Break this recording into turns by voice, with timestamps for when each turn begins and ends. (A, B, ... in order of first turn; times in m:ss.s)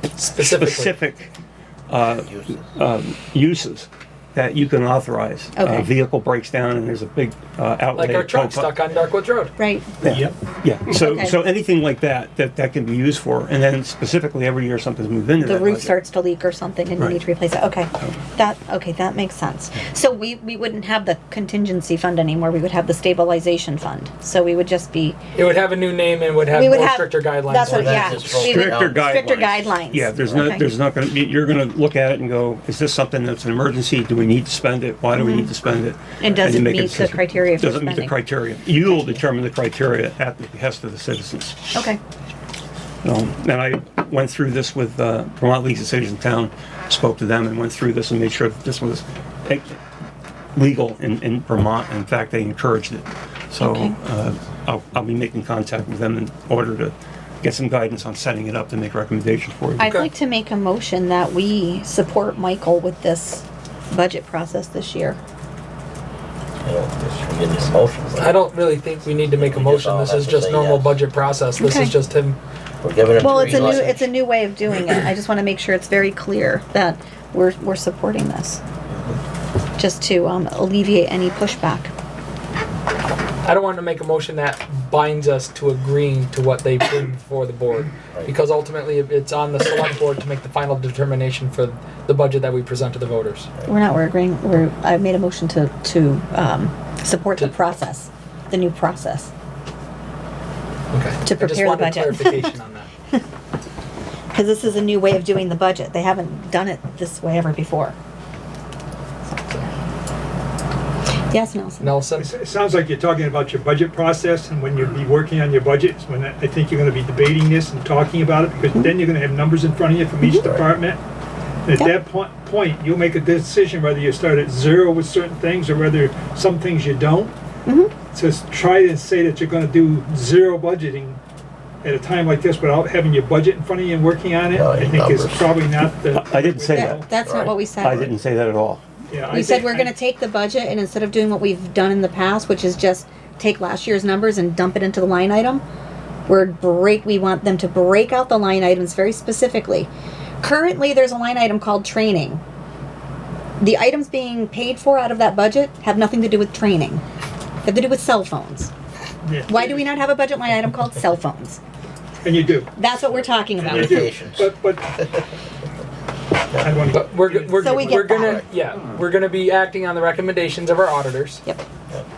0:00.2-0:01.0 A
0:00.4-0:01.3 B
0:01.9-0:08.8 B
0:05.6-0:05.9 C
0:08.0-0:09.5 A
0:09.6-0:10.0 C
0:10.0-0:16.0 B
0:10.0-0:10.3 D
0:10.9-0:11.3 C
0:15.4-0:25.2 C
0:25.4-0:28.5 A
0:26.5-0:30.7 C
0:27.6-0:29.4 E
0:28.3-0:41.7 B
0:35.2-0:35.5 C
0:36.2-0:38.1 C
0:41.7-0:42.0 C
0:43.0-0:49.8 B
0:50.6-0:59.9 B
0:53.6-0:54.0 C
0:59.8-1:05.2 C
0:59.8-1:00.1 A
1:06.6-1:08.5 E
1:08.2-1:12.4 A
1:09.4-1:11.0 E
1:11.6-1:11.9 C
1:12.8-1:14.0 E
1:13.2-1:18.6 C
1:13.3-1:13.9 A
1:18.9-1:19.2 E
1:19.8-1:21.9 C
1:23.4-1:33.5 A
1:33.7-1:39.3 C
1:40.9-1:42.9 A
1:41.2-1:42.5 C
1:44.3-1:48.0 C
1:51.3-1:52.0 C
1:51.8-1:52.3 A
1:52.2-2:01.0 D
2:00.2-2:00.5 C
2:01.6-2:07.3 D
2:07.7-2:07.9 C
2:08.1-2:11.2 D
2:11.8-2:17.1 D
2:14.5-2:15.5 E
2:16.1-2:18.8 B
2:16.7-2:18.1 C
2:17.2-2:18.1 E
2:19.1-2:19.9 D
2:19.3-2:25.6 C
2:26.3-2:29.9 C
2:30.4-2:32.4 C
2:33.6-2:37.0 C
2:37.6-2:38.7 C
2:39.2-2:39.9 D
2:39.5-2:41.6 C
2:42.2-2:42.7 D
2:42.8-2:44.2 C
2:43.6-2:44.5 E
2:43.6-2:44.9 D
2:46.5-2:46.8 E
2:46.6-2:48.1 D
2:46.9-2:51.4 A
2:47.6-2:48.4 C